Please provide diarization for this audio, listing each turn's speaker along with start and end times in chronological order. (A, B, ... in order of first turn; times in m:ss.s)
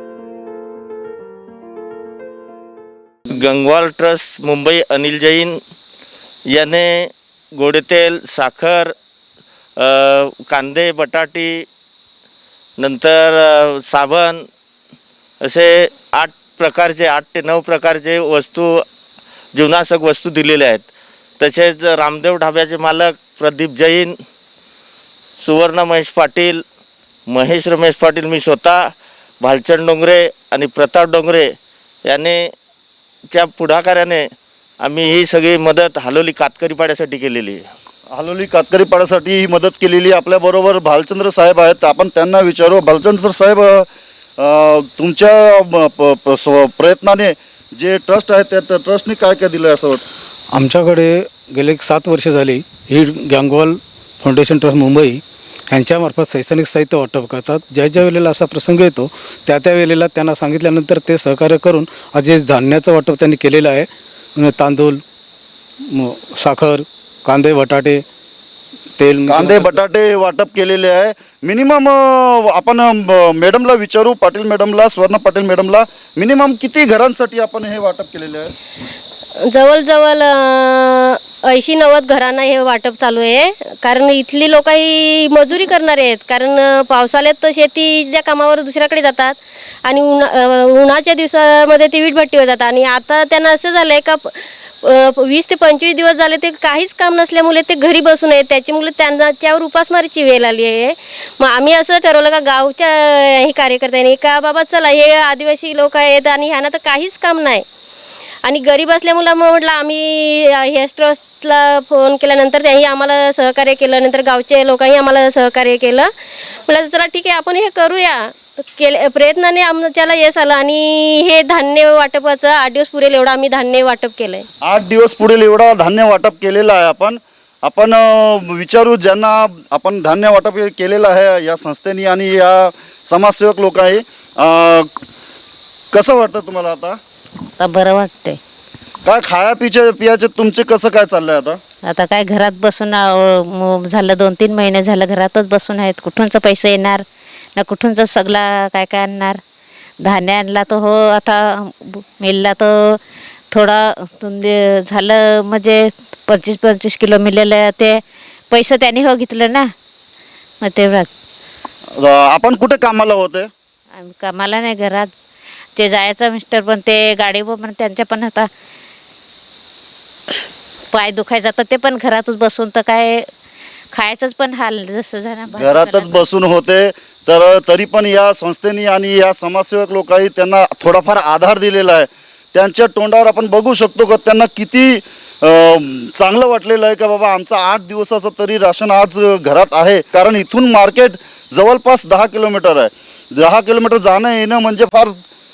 0:03.3-0:05.6 A
0:06.5-0:08.9 A
0:09.8-0:11.7 A
0:12.8-0:14.4 A
0:15.4-0:18.8 A
0:19.5-0:20.9 A
0:21.4-0:24.2 A
0:25.4-0:26.6 A
0:27.3-0:28.9 A
0:29.4-0:31.5 A
0:32.1-0:32.5 A
0:33.3-0:34.3 A
0:34.8-0:37.7 A
0:38.1-0:43.9 B
0:44.4-0:50.0 B
0:50.5-1:05.0 C
1:05.9-1:08.0 C
1:09.0-1:09.8 C
1:09.3-1:18.5 B
1:19.5-1:47.6 D
1:48.5-1:56.1 D
1:56.7-2:04.4 D
2:04.6-2:14.9 B
2:15.9-2:17.0 B
2:17.6-2:18.4 E
2:19.0-2:21.6 B
2:21.8-2:27.0 E
2:27.6-2:29.4 E
2:30.0-2:33.0 E
2:33.5-2:39.7 E
2:40.6-2:41.1 E
2:42.0-2:43.5 B
2:44.0-2:45.2 E
2:45.8-2:48.5 E
2:50.9-2:53.3 E
2:53.9-2:56.2 E
2:55.5-3:15.2 B